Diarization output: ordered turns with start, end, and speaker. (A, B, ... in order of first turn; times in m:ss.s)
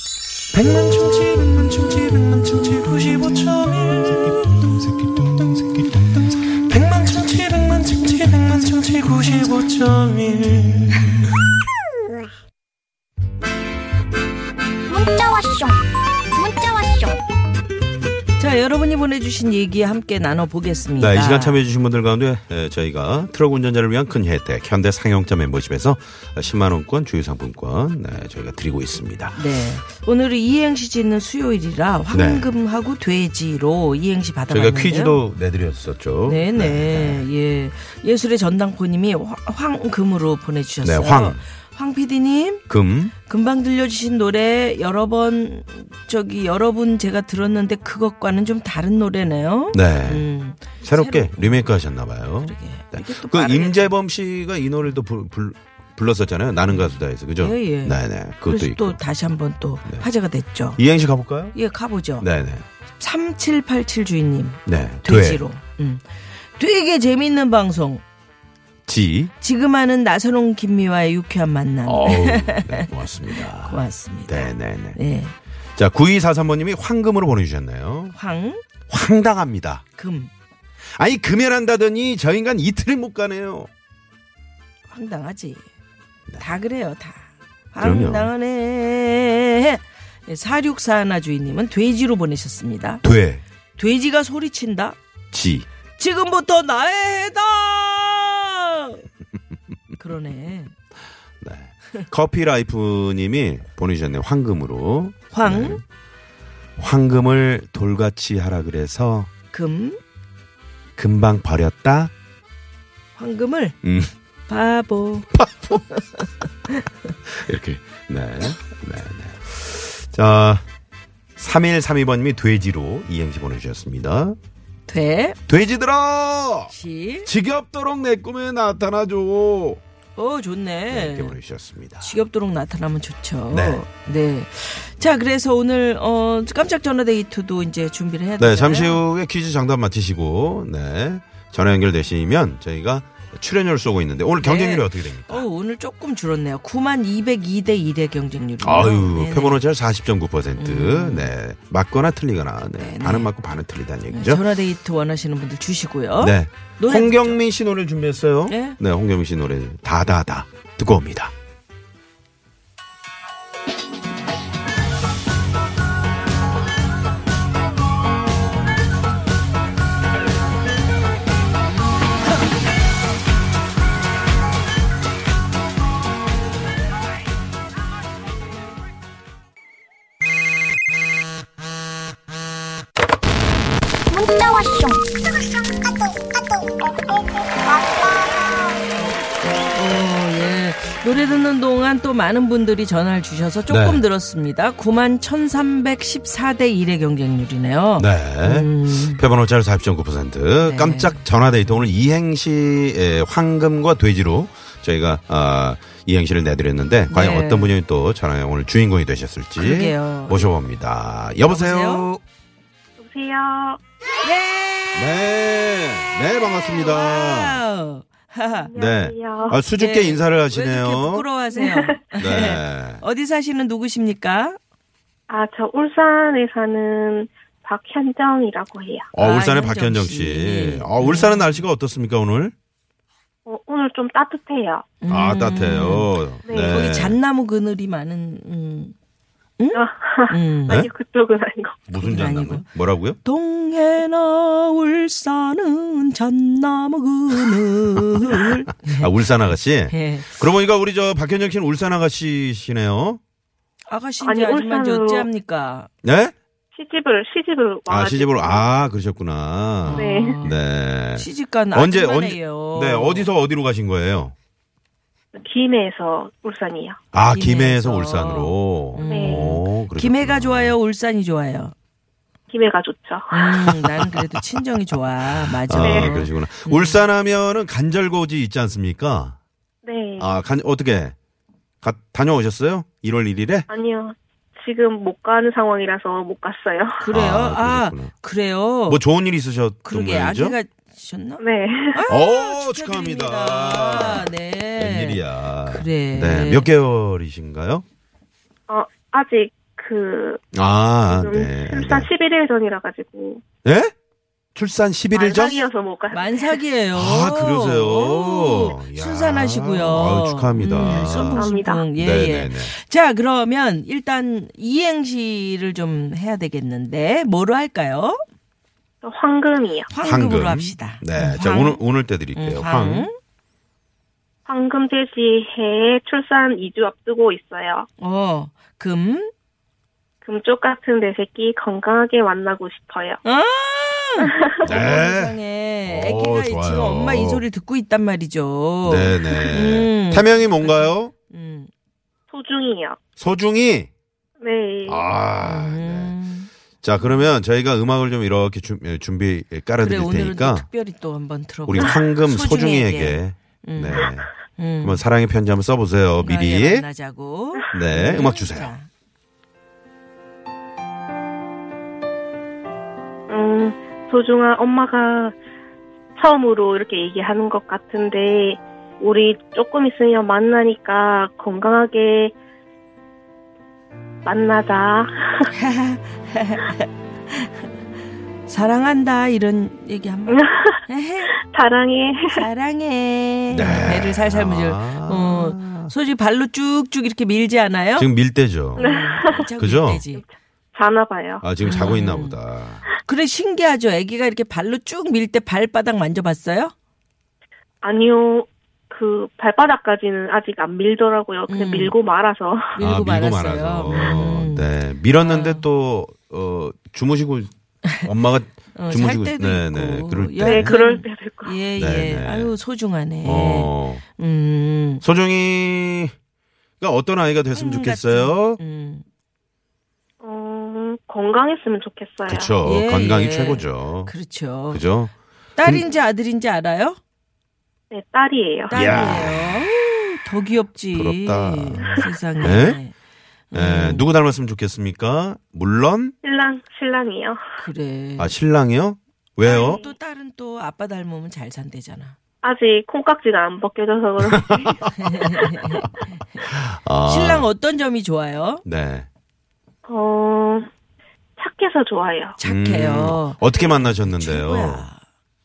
0:00.5-0:11.0 A
0:14.9-0:17.2 B
0:18.4-0:21.6 C
0:21.0-0:29.4 D
0:29.3-0:35.2 C
0:32.1-0:32.5 D
0:34.5-0:37.3 D
0:36.2-0:42.6 C
0:40.8-0:41.4 D
0:42.7-0:43.1 D
0:43.2-0:51.7 C
0:49.7-0:50.3 D
0:50.8-0:59.0 D
0:52.4-0:53.9 C
0:56.7-1:00.8 C
1:00.8-1:01.6 D
1:01.5-1:02.2 C
1:02.2-1:02.6 D
1:03.0-1:08.0 C
1:04.6-1:05.4 D
1:08.9-1:09.3 D
1:09.4-1:15.3 C
1:11.8-1:15.0 D
1:15.8-1:18.1 D
1:18.1-1:18.6 C
1:18.9-1:19.8 D
1:20.0-1:20.3 C
1:21.0-1:23.7 D
1:24.9-1:25.6 C
1:26.4-1:33.0 C
1:27.8-1:28.3 D
1:33.0-1:33.4 D
1:33.8-1:35.0 C
1:35.3-1:35.7 D
1:36.0-1:39.0 C
1:40.0-1:40.7 C
1:41.4-1:45.8 D
1:45.3-1:45.8 C
1:46.8-1:49.3 D
1:49.5-1:50.0 C
1:51.0-1:52.1 D
1:53.2-1:53.8 C
1:53.8-1:54.1 D
1:54.5-1:55.3 C
1:55.4-1:55.8 D
1:56.2-1:56.8 C
1:57.3-2:00.6 D
2:01.4-2:04.4 D
2:04.9-2:05.4 C
2:05.5-2:06.7 D
2:06.7-2:07.3 C
2:07.2-2:09.8 D
2:10.2-2:11.4 C
2:10.9-2:12.2 D
2:12.0-2:19.0 C
2:13.5-2:13.8 D
2:18.4-2:25.4 D
2:24.4-2:29.6 C
2:28.6-2:34.4 D
2:30.6-2:31.3 C
2:32.8-2:33.3 C
2:34.1-2:37.4 C
2:36.2-2:41.3 D
2:38.5-2:38.8 C
3:04.1-3:06.6 B
3:07.7-3:08.6 B
3:09.7-3:19.2 C
3:13.7-3:14.0 D
3:18.0-3:32.2 D
3:20.6-3:21.9 C
3:27.1-3:27.7 C
3:29.6-3:30.4 C
3:31.4-3:32.1 C
3:33.0-3:33.8 E
3:34.2-3:35.2 C
3:34.9-3:37.6 D
3:36.6-3:38.7 C
3:38.5-3:39.6 E
3:38.8-3:41.2 D
3:39.7-3:44.6 C
3:41.5-3:42.0 E
3:42.2-3:43.0 D
3:45.3-3:49.1 E
3:49.1-3:52.5 D
3:49.2-3:51.6 C
3:53.4-3:54.8 E
3:55.0-3:58.9 C
3:55.1-3:57.2 D
3:56.5-3:56.9 E
3:59.6-4:00.8 C
3:59.7-4:01.8 E
4:01.9-4:03.2 D
4:01.9-4:02.7 C
4:03.2-4:09.1 C
4:08.4-4:13.2 D
4:09.9-4:10.4 C
4:13.9-4:15.9 C
4:14.2-4:15.3 E
4:16.0-4:16.3 D
4:16.7-4:18.6 E
4:17.9-4:24.3 D
4:19.8-4:20.6 C
4:19.9-4:20.4 E
4:21.1-4:23.3 C
4:25.3-4:27.0 E
4:27.1-4:30.8 D
4:27.3-4:31.7 C
4:29.1-4:29.5 E
4:32.5-4:33.5 E
4:33.3-4:37.0 C
4:33.6-4:34.2 D
4:35.4-4:39.4 D
4:35.8-4:36.2 E
4:39.8-4:40.4 E
4:40.2-4:41.1 D
4:41.8-4:43.7 D
4:43.7-4:47.0 E
4:47.0-4:49.0 C
4:47.1-4:48.1 D
4:48.9-4:50.6 D
4:49.8-4:51.4 C
4:51.4-4:52.0 E
4:51.9-4:56.7 C
4:52.1-4:57.8 D
4:58.7-5:00.4 E
5:00.5-5:02.1 D
5:01.1-5:03.4 E
5:03.6-5:03.9 D
5:04.5-5:05.7 D
5:05.1-5:06.6 E
5:06.1-5:18.2 C
5:06.9-5:12.7 D
5:10.9-5:11.8 E
5:19.0-5:19.9 E
5:19.9-5:21.8 C
5:20.0-5:23.1 D
5:22.3-5:23.1 C
5:24.4-5:27.9 E
5:28.0-5:29.3 C
5:30.2-5:33.2 E
5:33.2-5:41.7 C
5:34.2-5:34.5 E
5:34.6-5:37.4 D
5:38.8-5:41.1 D
5:42.3-5:43.0 E
5:43.2-5:43.9 D
5:44.4-5:45.0 E
5:44.8-5:46.1 D
5:45.4-5:46.5 C
5:46.8-5:50.6 D
5:49.8-5:55.0 C
5:51.7-5:54.3 D
5:54.8-5:56.8 D
5:56.2-5:58.9 C
5:57.7-5:58.7 D
6:03.3-6:05.4 E
6:06.2-6:12.3 E
6:14.2-6:15.5 E
6:15.5-6:17.5 C
6:18.5-6:21.3 C
6:20.3-6:20.8 E
6:21.4-6:22.4 E
6:22.3-6:28.1 C
6:23.5-6:25.9 D
6:28.0-6:30.0 D
6:28.8-6:29.4 E
6:28.8-6:30.2 C
6:30.7-6:31.4 E
6:31.4-6:32.8 D
6:31.6-6:32.4 C
6:33.0-6:36.7 C
6:37.8-6:42.7 E
6:41.5-6:41.9 C
6:42.8-6:45.6 C
6:42.8-6:50.7 D
6:48.7-6:55.0 C
6:50.4-6:51.6 E
6:51.8-6:52.6 D
6:53.2-6:54.0 D
6:55.0-6:56.1 D
6:56.8-6:58.6 D
6:57.5-6:59.0 C
7:00.2-7:02.5 E
7:02.3-7:04.1 D
7:02.6-7:04.8 C
7:04.7-7:05.8 D
7:05.6-7:07.0 C
7:07.9-7:09.2 E
7:08.7-7:12.9 C
7:08.7-7:09.7 D
7:10.9-7:12.8 D
7:13.5-7:14.1 C
7:13.5-7:16.1 D
7:16.2-7:17.4 E
7:17.6-7:18.3 C
7:18.2-7:19.8 D
7:19.4-7:22.2 C
7:19.5-7:19.9 E
7:22.4-7:24.9 E
7:24.6-7:25.3 D
7:25.0-7:25.9 C
7:26.4-7:27.5 D
7:27.0-7:28.6 C
7:28.6-7:29.1 D
7:29.8-7:30.7 E
7:31.4-7:32.4 E
7:32.4-7:35.0 C
7:32.4-7:34.8 D